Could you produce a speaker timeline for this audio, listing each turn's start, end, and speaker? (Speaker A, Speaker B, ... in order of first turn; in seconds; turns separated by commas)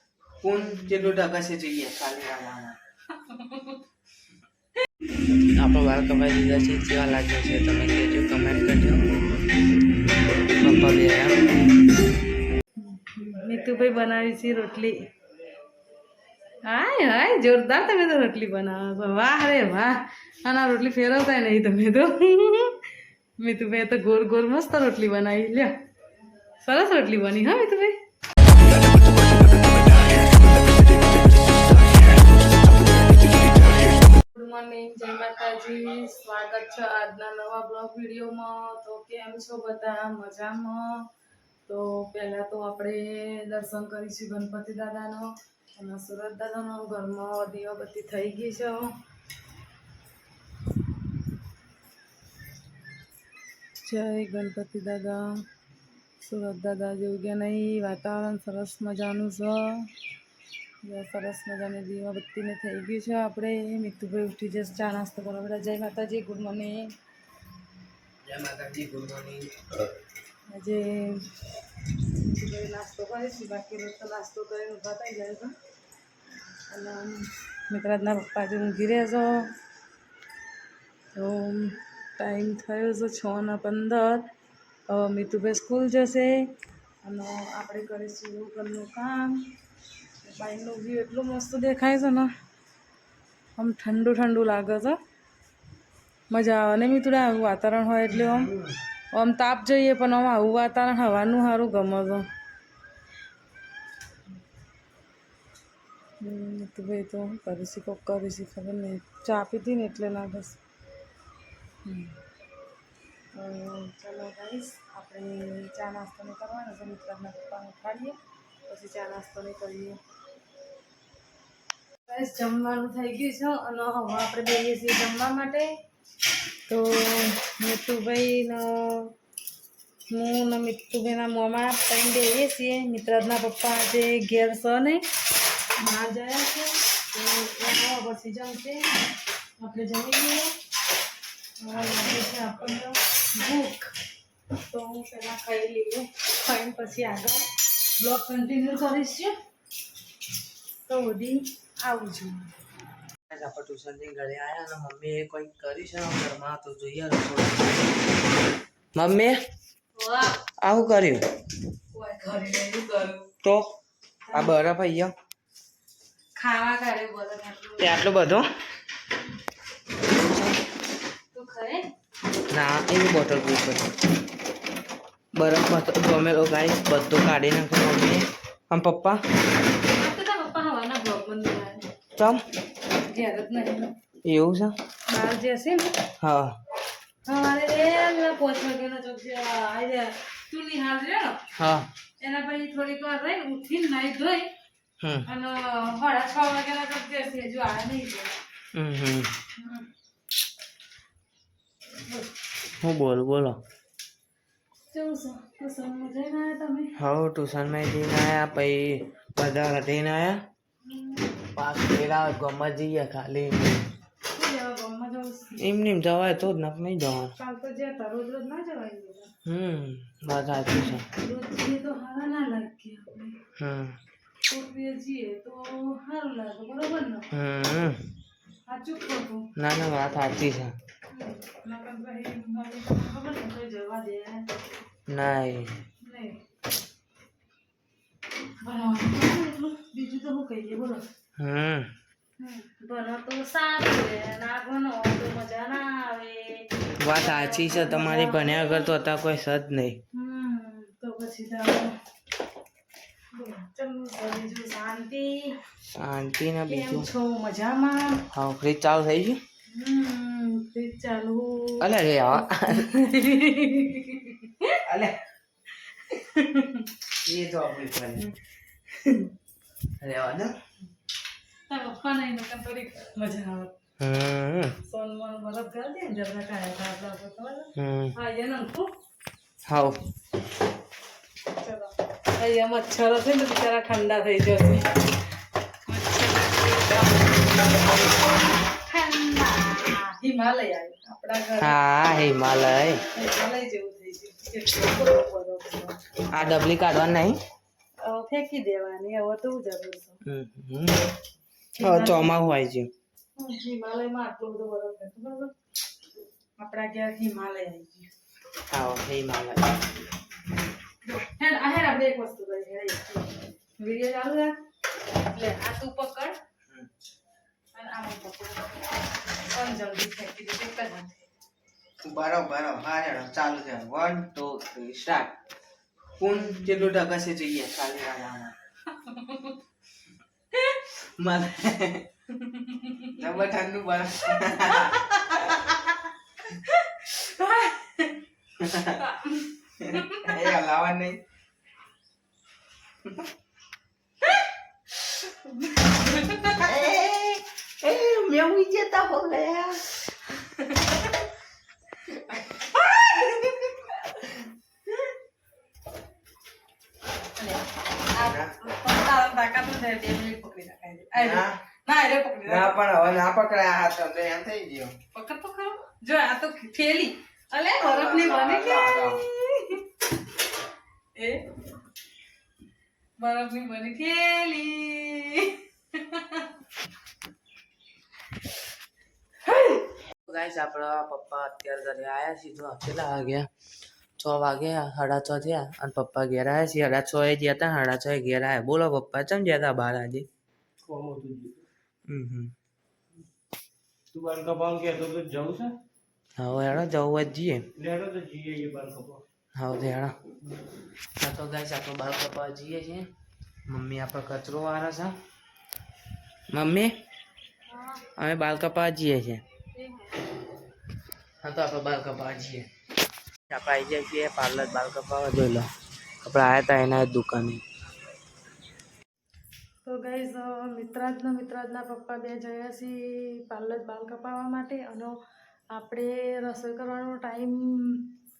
Speaker A: 0.4-2.8, Speaker B: 3.2-3.8, Speaker A: 5.5-9.0, Speaker A: 10.6-11.4, Speaker B: 12.8-15.0, Speaker B: 16.6-22.9, Speaker B: 23.4-25.7, Speaker B: 26.6-27.9, Speaker B: 34.3-41.0, Speaker B: 41.7-48.9, Speaker B: 53.8-55.4, Speaker B: 56.2-59.9, Speaker B: 60.8-66.9, Speaker A: 68.2-69.6, Speaker B: 70.5-71.3, Speaker B: 72.1-75.5, Speaker B: 76.7-79.5, Speaker B: 81.1-84.2, Speaker B: 84.9-86.5, Speaker B: 87.0-89.5, Speaker B: 90.2-92.3, Speaker B: 93.6-95.0, Speaker B: 96.3-98.5, Speaker A: 98.1-98.7, Speaker B: 99.1-102.3, Speaker B: 106.2-110.6, Speaker B: 111.8-112.2, Speaker B: 113.3-120.0, Speaker B: 122.1-125.7, Speaker B: 126.7-129.1, Speaker B: 130.1-135.0, Speaker B: 135.8-138.9, Speaker B: 139.6-140.5, Speaker B: 141.6-143.9, Speaker B: 144.7-149.3, Speaker B: 150.9-152.5, Speaker A: 153.3-157.8, Speaker A: 158.9-159.3, Speaker B: 159.9-160.4, Speaker A: 160.6-161.2, Speaker B: 161.9-163.3, Speaker A: 163.4-163.7, Speaker B: 164.2-164.5, Speaker A: 164.3-165.1, Speaker B: 166.3-168.0, Speaker A: 167.8-168.4, Speaker A: 170.1-170.5, Speaker B: 171.3-171.9, Speaker A: 172.5-173.9, Speaker A: 175.3-179.2, Speaker B: 179.8-181.8, Speaker A: 182.2-182.4, Speaker B: 183.0-183.9, Speaker A: 184.2-184.7, Speaker B: 185.1-186.0, Speaker A: 186.2-186.5, Speaker B: 187.2-191.4, Speaker A: 191.5-191.9, Speaker B: 192.2-194.5, Speaker A: 195.0-195.3, Speaker B: 195.2-198.3, Speaker A: 198.7-199.3, Speaker B: 199.6-199.9, Speaker A: 202.8-203.6, Speaker B: 204.9-206.9, Speaker A: 207.0-210.4, Speaker B: 210.8-211.3, Speaker A: 211.5-213.9, Speaker B: 214.3-215.5, Speaker A: 215.6-217.3, Speaker B: 217.4-219.3, Speaker A: 219.4-221.1, Speaker B: 220.8-223.4, Speaker A: 223.6-223.9, Speaker B: 224.5-227.3, Speaker A: 227.3-228.0, Speaker B: 228.7-229.5, Speaker A: 229.6-230.7, Speaker B: 231.1-234.5, Speaker A: 235.1-235.7, Speaker B: 236.0-236.4, Speaker B: 238.6-241.0, Speaker A: 241.4-241.9, Speaker B: 242.4-248.9, Speaker A: 247.0-250.0, Speaker B: 250.1-252.0, Speaker B: 253.3-255.6, Speaker A: 255.9-257.1, Speaker B: 256.7-258.2, Speaker A: 258.3-259.4, Speaker B: 259.7-264.8, Speaker A: 261.8-262.9, Speaker A: 264.8-265.2, Speaker B: 265.9-266.9, Speaker A: 267.2-268.3, Speaker B: 268.9-269.3, Speaker A: 270.0-270.5, Speaker B: 271.7-273.7, Speaker A: 274.0-274.8, Speaker B: 274.8-278.9, Speaker A: 277.8-278.1, Speaker A: 279.7-280.0, Speaker B: 281.5-285.2, Speaker B: 285.9-288.1, Speaker B: 288.8-291.8, Speaker A: 291.6-293.0, Speaker B: 293.1-296.0, Speaker A: 296.3-297.4, Speaker B: 298.0-300.2, Speaker A: 300.2-301.0, Speaker B: 301.8-302.3, Speaker A: 301.8-302.9, Speaker B: 303.4-305.5, Speaker B: 306.6-308.1, Speaker A: 308.7-309.8, Speaker B: 311.0-314.5, Speaker B: 315.2-316.4, Speaker B: 317.7-318.9, Speaker B: 319.5-321.3, Speaker A: 322.0-325.3, Speaker A: 326.2-328.6, Speaker B: 328.9-329.6, Speaker A: 331.0-332.1, Speaker B: 332.4-333.2, Speaker A: 333.1-335.1, Speaker B: 334.6-338.1, Speaker A: 338.6-339.0, Speaker B: 338.9-340.5, Speaker A: 339.8-341.2, Speaker B: 345.1-346.7, Speaker A: 346.5-349.9, Speaker B: 350.6-351.0, Speaker B: 352.3-354.4, Speaker B: 357.4-362.8, Speaker A: 358.2-358.5, Speaker A: 361.1-361.6, Speaker A: 362.4-364.9, Speaker B: 365.1-369.9, Speaker A: 367.8-369.2, Speaker B: 371.1-371.5, Speaker B: 373.2-376.5, Speaker B: 379.5-379.8, Speaker A: 380.2-383.5, Speaker A: 384.2-390.2, Speaker C: 390.8-391.6, Speaker A: 392.1-392.5, Speaker C: 394.1-395.8, Speaker A: 396.4-397.6, Speaker C: 397.8-399.2, Speaker A: 399.5-400.1, Speaker A: 401.2-403.1, Speaker A: 403.7-405.1, Speaker A: 406.5-406.9, Speaker B: 407.7-408.0, Speaker A: 408.1-409.4, Speaker B: 409.7-410.2, Speaker A: 411.4-412.7, Speaker A: 413.5-415.7, Speaker A: 416.2-417.6, Speaker B: 419.8-425.2, Speaker B: 425.7-428.1